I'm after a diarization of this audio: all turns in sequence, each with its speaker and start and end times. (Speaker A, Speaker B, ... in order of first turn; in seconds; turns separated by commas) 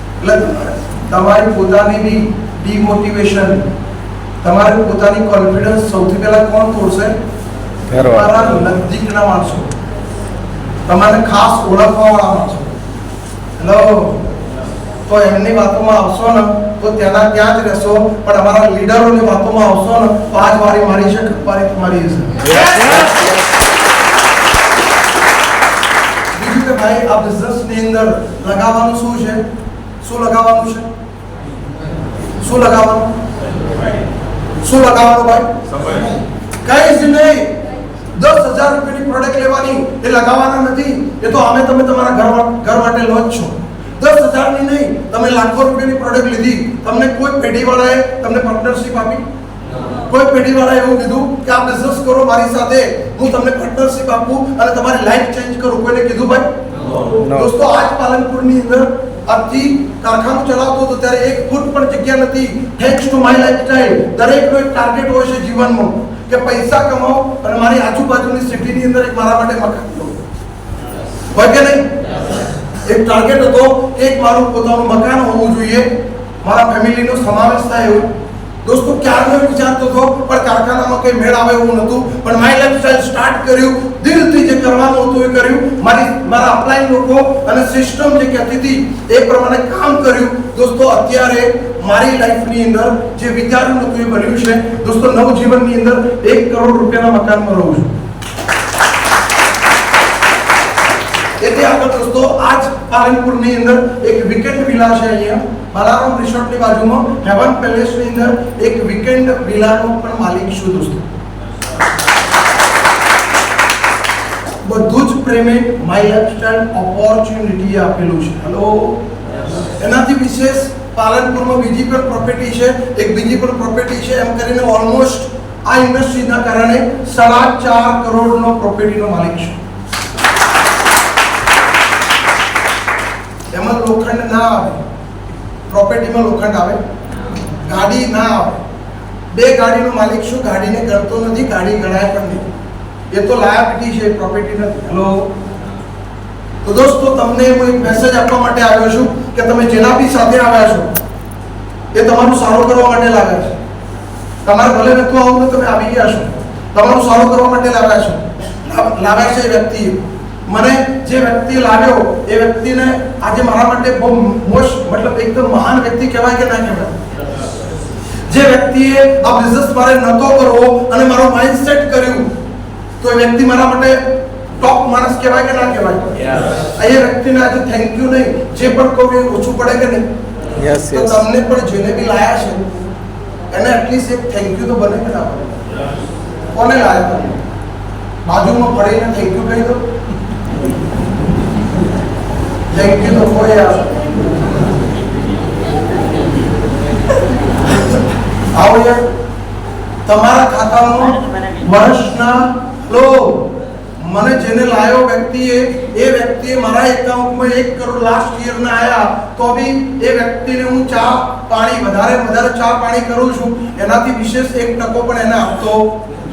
Speaker A: 0.2-3.6, Speaker A: 4.4-7.2, Speaker B: 7.9-8.4, Speaker A: 8.1-9.7, Speaker A: 10.9-12.7, Speaker A: 13.6-14.2, Speaker A: 15.1-22.7, Speaker B: 22.5-23.3, Speaker A: 26.4-29.4, Speaker A: 30.0-30.9, Speaker A: 32.4-33.1, Speaker A: 34.6-35.5, Speaker A: 36.6-37.5, Speaker A: 38.1-49.2, Speaker A: 50.1-56.5, Speaker B: 57.0-57.5, Speaker A: 57.3-70.2, Speaker A: 71.3-71.9, Speaker A: 72.9-75.9, Speaker A: 76.4-78.1, Speaker A: 78.6-97.9, Speaker A: 101.4-111.1, Speaker A: 114.6-119.0, Speaker A: 119.6-129.6, Speaker A: 133.5-134.8, Speaker A: 135.7-136.8, Speaker A: 137.6-138.6, Speaker A: 139.3-142.5, Speaker A: 143.1-145.3, Speaker A: 146.6-150.9, Speaker A: 151.9-153.6, Speaker A: 154.4-166.9, Speaker A: 168.3-172.3, Speaker A: 173.0-174.0, Speaker A: 174.6-180.1, Speaker B: 180.6-181.2, Speaker A: 180.9-182.7, Speaker A: 183.5-185.5, Speaker A: 186.6-187.4, Speaker A: 188.2-189.8, Speaker A: 192.7-193.9, Speaker A: 198.6-199.0, Speaker A: 200.1-203.5, Speaker A: 204.1-215.9